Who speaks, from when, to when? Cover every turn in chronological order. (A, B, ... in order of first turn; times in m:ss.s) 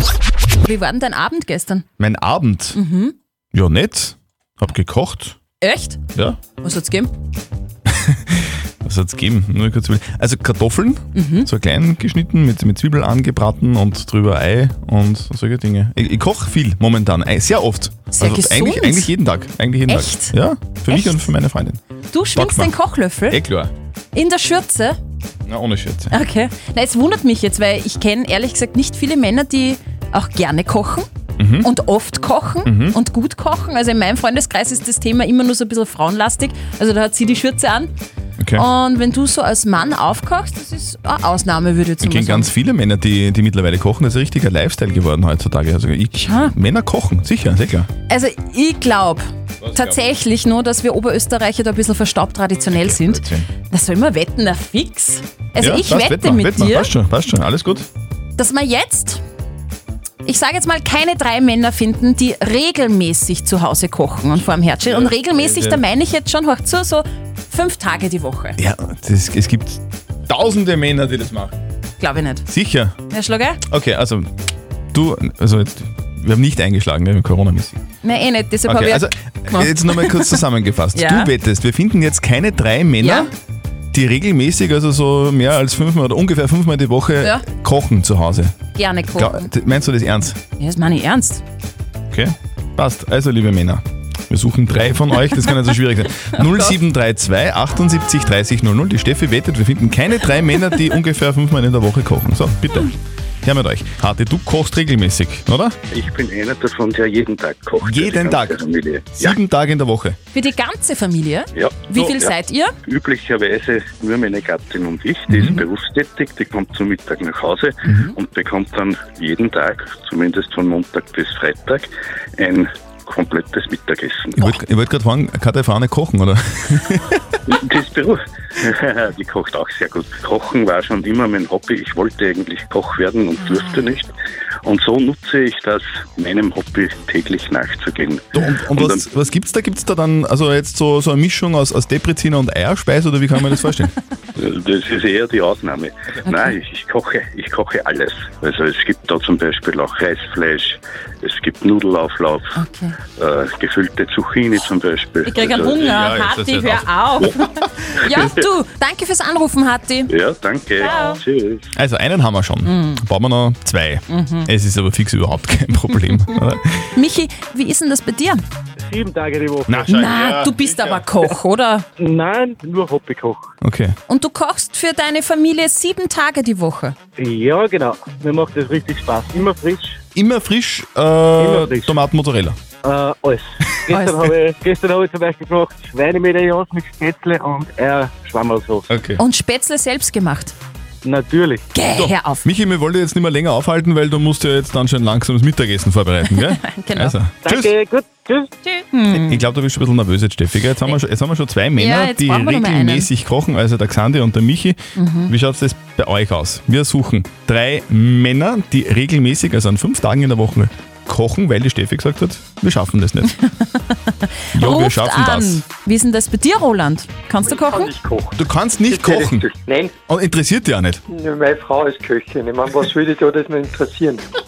0:00.6-0:01.8 A
0:02.0-0:02.8 B
0:02.7-0:03.1 A
0:03.5-0:05.4 B
0:05.6-0:06.0 A
0:06.6-0:07.1 A
0:07.9-0:21.8 B
0:11.1-0:11.5 A
0:18.1-0:19.1 A
0:19.9-0:20.3 A
0:20.9-0:21.3 A
0:22.1-0:23.4 A
0:22.3-0:22.7 B
0:23.3-0:23.7 B
0:24.1-0:25.0 A
0:25.4-0:26.2 B
0:26.1-0:31.1 A
0:31.4-0:31.7 B
0:31.6-0:37.9 A
0:32.6-0:33.0 B
0:38.4-0:38.6 B
0:38.5-0:42.5 A
0:42.0-0:47.9 B
0:46.1-0:46.5 A
0:48.1-0:56.9 A
0:49.6-0:50.0 B
0:52.7-0:53.5 B
0:55.6-0:57.9 B
0:58.4-0:59.2 A
1:00.2-1:08.6 A
1:04.9-1:05.8 B
1:08.6-1:11.6 B
1:12.0-1:12.4 A
1:12.5-1:13.0 B
1:13.1-1:13.6 A
1:13.7-1:14.3 B
1:14.9-1:17.8 B
1:18.0-1:20.4 A
1:18.6-1:23.3 B
1:20.9-1:21.3 A
1:23.0-1:23.3 A
1:23.9-1:28.6 B
1:28.7-1:29.5 A
1:29.1-1:30.4 B
1:30.6-1:31.4 A
1:32.1-1:45.8 B
1:45.9-1:49.4 C
1:47.8-1:48.6 B
1:49.1-1:50.2 B
1:50.3-1:52.7 A
1:51.5-1:52.3 C
1:52.8-2:04.4 C
1:55.3-1:55.6 B
1:57.9-1:58.1 B
2:04.4-2:07.2 B
2:07.5-2:14.1 C
2:13.4-2:13.9 A
2:14.6-2:19.0 C
2:18.3-2:23.9 B
2:24.4-2:32.6 C
2:32.5-2:33.0 A
2:33.2-2:35.8 C
2:35.2-2:40.1 A
2:35.8-2:36.9 B
2:40.1-2:41.7 C
2:40.8-2:41.2 A
2:41.7-2:46.9 B
2:42.6-2:43.0 A
2:44.1-2:44.5 A
2:46.9-2:48.4 A
2:48.8-2:49.8 D
2:49.7-2:51.0 B
2:49.9-2:51.8 A
2:52.0-2:53.4 D
2:53.6-2:54.0 B
2:54.1-2:56.9 A
2:57.2-3:00.0 D
3:00.1-3:02.6 B
3:01.4-3:01.9 D
3:02.8-3:08.8 D
3:03.9-3:04.3 A
3:08.9-3:09.2 B
3:09.2-3:10.5 A
3:11.0-3:11.6 D
3:11.7-3:12.4 A
3:11.9-3:17.7 B
3:16.5-3:17.2 A
3:17.4-3:18.5 D
3:18.6-3:19.4 A
3:19.1-3:33.3 B
3:21.8-3:23.1 A
3:25.0-3:25.3 A
3:33.4-3:37.9 A
3:34.5-3:35.6 B
3:37.4-3:39.9 E
3:38.4-3:39.4 B
3:40.1-3:41.0 B
3:41.1-3:44.2 E